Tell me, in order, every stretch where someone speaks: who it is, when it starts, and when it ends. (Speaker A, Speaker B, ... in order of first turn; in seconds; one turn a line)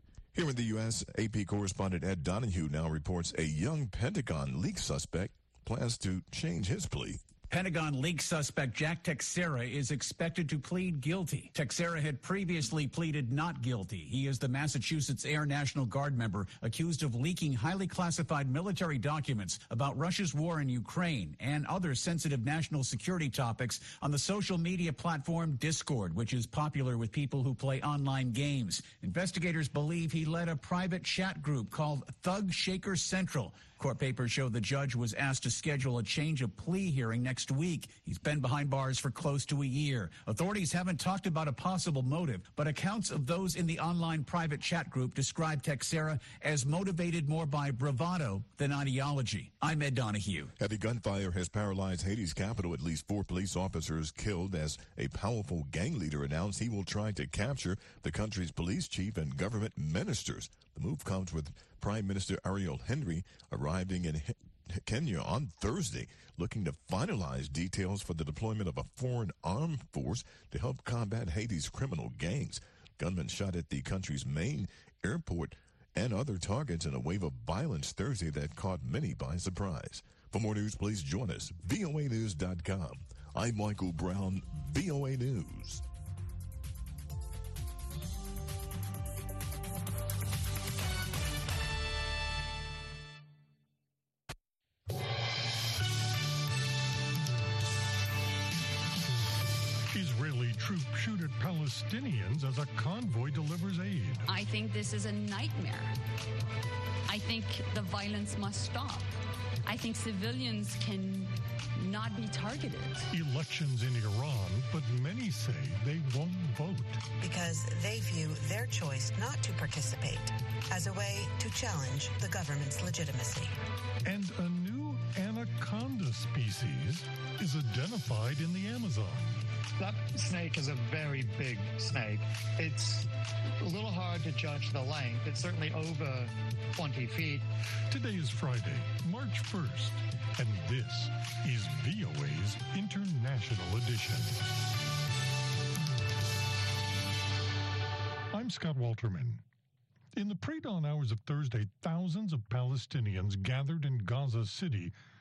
Speaker A: 0.3-7.2
Speaker B: 7.5-50.5
Speaker A: 50.6-85.8
Speaker C: 99.9-104.3
Speaker D: 104.3-106.0
Speaker D: 107.1-113.1
Speaker C: 113.1-117.0
Speaker E: 117.2-123.5
Speaker C: 124.0-129.4
Speaker F: 129.8-133.1
Speaker F: 133.6-137.4
Speaker C: 137.9-144.4
Speaker C: 148.3-149.4
Speaker C: 150.1-154.9